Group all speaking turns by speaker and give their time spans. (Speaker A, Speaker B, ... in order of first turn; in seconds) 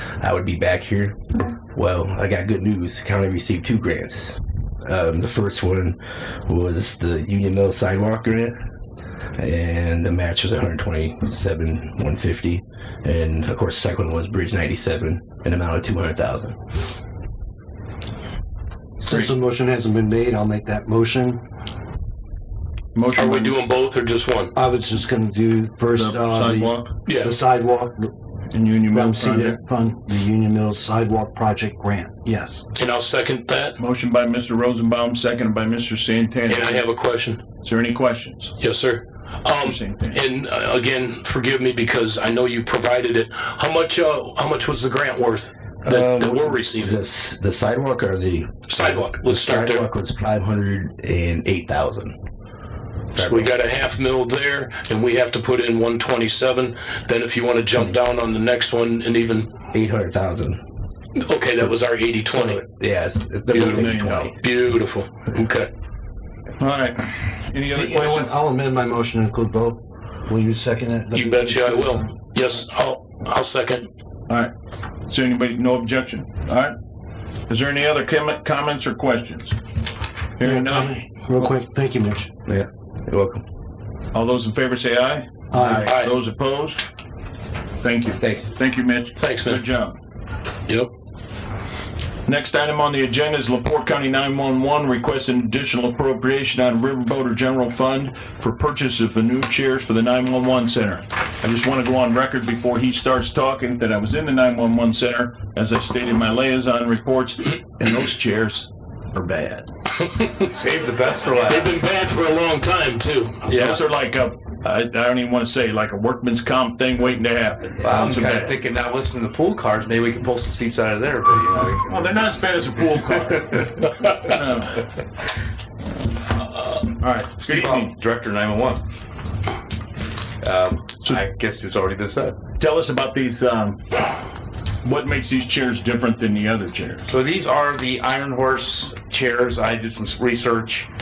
Speaker A: 0.2-8.6, 9.4-16.9, 45.8-52.2, 53.1-53.5, 59.7-60.6, 62.3-64.4, 82.5-83.4, 88.2-88.5
Speaker B: 19.0-21.4, 24.6-28.1, 28.9-32.6, 67.7-72.1, 80.4-82.3, 85.5-86.0
Speaker C: 22.9-23.6, 25.9-26.9, 28.5-29.6, 33.8-36.9, 37.6-38.5, 39.6-40.2, 63.5-64.3, 66.6-68.4, 75.1-76.8, 77.5-79.6, 80.4-81.5, 84.1-86.8, 87.8-90.0, 92.3-109.7, 113.5-118.6, 121.8-124.8, 125.9-126.2, 127.0-128.0, 132.6-134.0, 134.8-137.1
Speaker D: 23.2-24.5, 27.1-27.4, 32.8-33.8, 36.5-37.4, 38.6-47.0, 48.7-49.8, 53.1-59.5, 61.2-62.6, 63.5-65.7, 71.1-73.9, 85.8-86.1, 89.2-89.6, 111.4-113.8
Speaker E: 110.4-111.8, 117.8-122.2, 127.2-128.8, 130.4-132.4, 137.1-140.9